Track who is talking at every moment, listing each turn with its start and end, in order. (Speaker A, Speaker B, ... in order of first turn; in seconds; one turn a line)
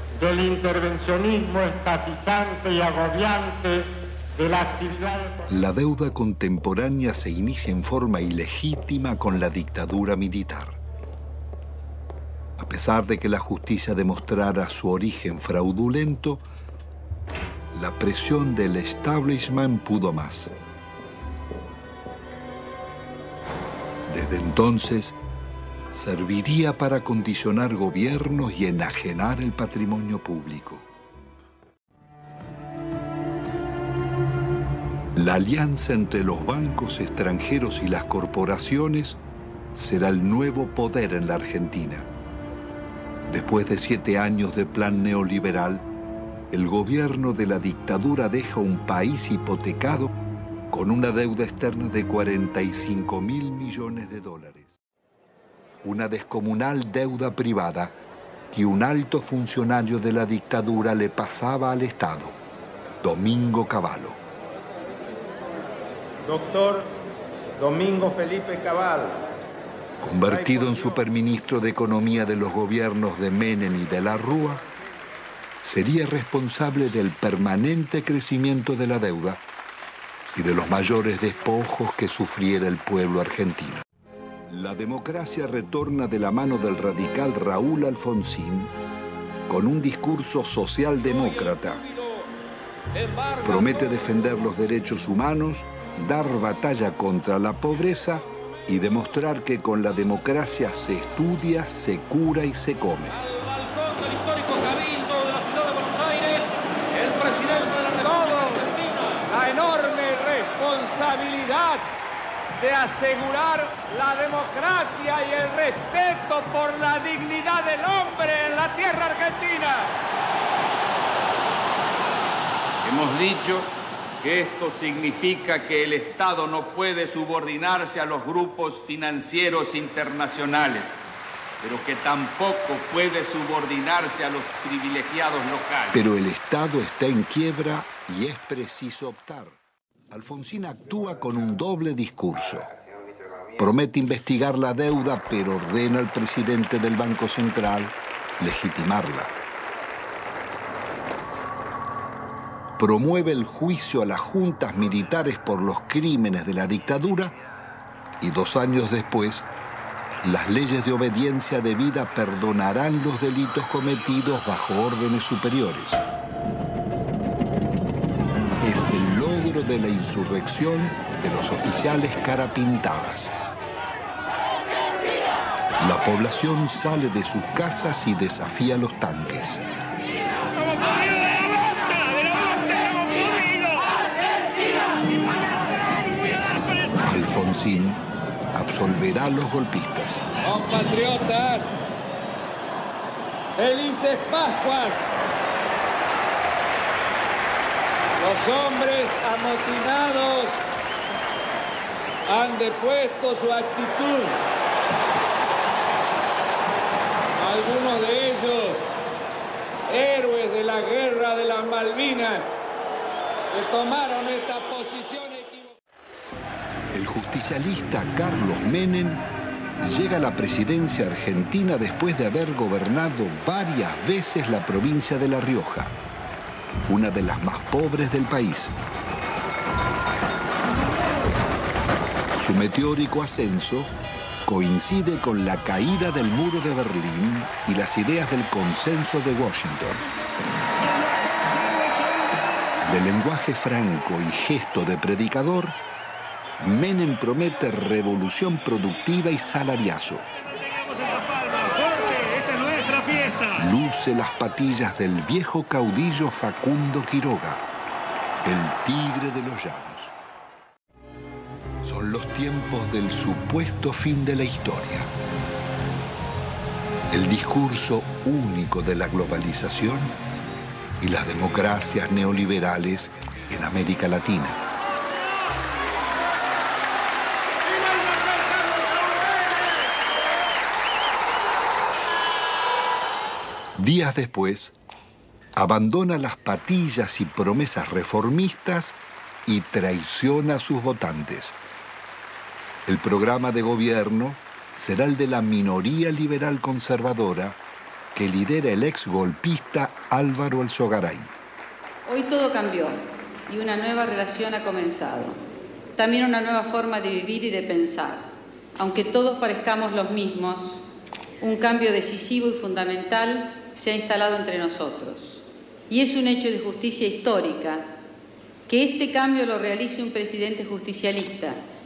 Speaker A: 0.2-5.4
Speaker B: 5.5-10.8
Speaker B: 12.6-16.4
Speaker B: 17.7-20.5
Speaker B: 24.1-25.2
Speaker B: 25.9-30.9
Speaker B: 35.1-39.2
Speaker B: 39.7-42.1
Speaker B: 43.3-45.9
Speaker B: 46.5-50.1
Speaker B: 50.7-54.8
Speaker B: 55.8-58.0
Speaker B: 58.5-62.4
Speaker B: 63.0-64.2
Speaker C: 66.2-66.9
Speaker C: 67.6-69.2
Speaker B: 70.0-74.6
Speaker C: 70.3-70.8
Speaker B: 75.6-79.4
Speaker B: 80.3-83.8
Speaker B: 84.5-88.7
Speaker B: 89.5-91.8
Speaker B: 93.4-103.2
Speaker D: 104.6-106.5
Speaker D: 107.0-108.6
Speaker D: 109.3-111.8
Speaker D: 112.6-119.9
Speaker E: 122.8-123.7
Speaker E: 124.2-130.9
Speaker E: 131.6-136.0
Speaker B: 135.9-139.6
Speaker B: 140.1-142.7
Speaker B: 143.6-149.3
Speaker B: 152.8-157.3
Speaker B: 158.2-159.4
Speaker B: 160.2-166.0
Speaker B: 168.6-173.3
Speaker B: 175.8-179.6
Speaker D: 181.9-183.7
Speaker B: 187.0-188.0
Speaker B: 188.5-190.2
Speaker D: 190.4-191.7
Speaker D: 193.6-195.1
Speaker D: 198.2-200.6
Speaker D: 202.3-204.4
Speaker D: 207.4-208.9
Speaker D: 209.9-212.5
Speaker D: 213.5-215.7
Speaker B: 216.9-219.2
Speaker B: 219.8-225.9
Speaker B: 226.9-228.8
Speaker B: 232.4-233.9
Speaker B: 234.4-240.0
Speaker B: 242.8-245.8
Speaker B: 246.6-250.3
Speaker B: 252.6-257.6
Speaker B: 258.4-260.1
Speaker B: 261.8-265.1
Speaker B: 267.1-270.2
Speaker B: 271.0-274.6
Speaker B: 283.8-284.8
Speaker B: 285.6-291.6
Speaker B: 292.9-297.6
Speaker B: 298.1-301.3
Speaker F: 302.1-305.4
Speaker F: 305.9-310.8
Speaker F: 311.4-317.8
Speaker F: 318.7-321.6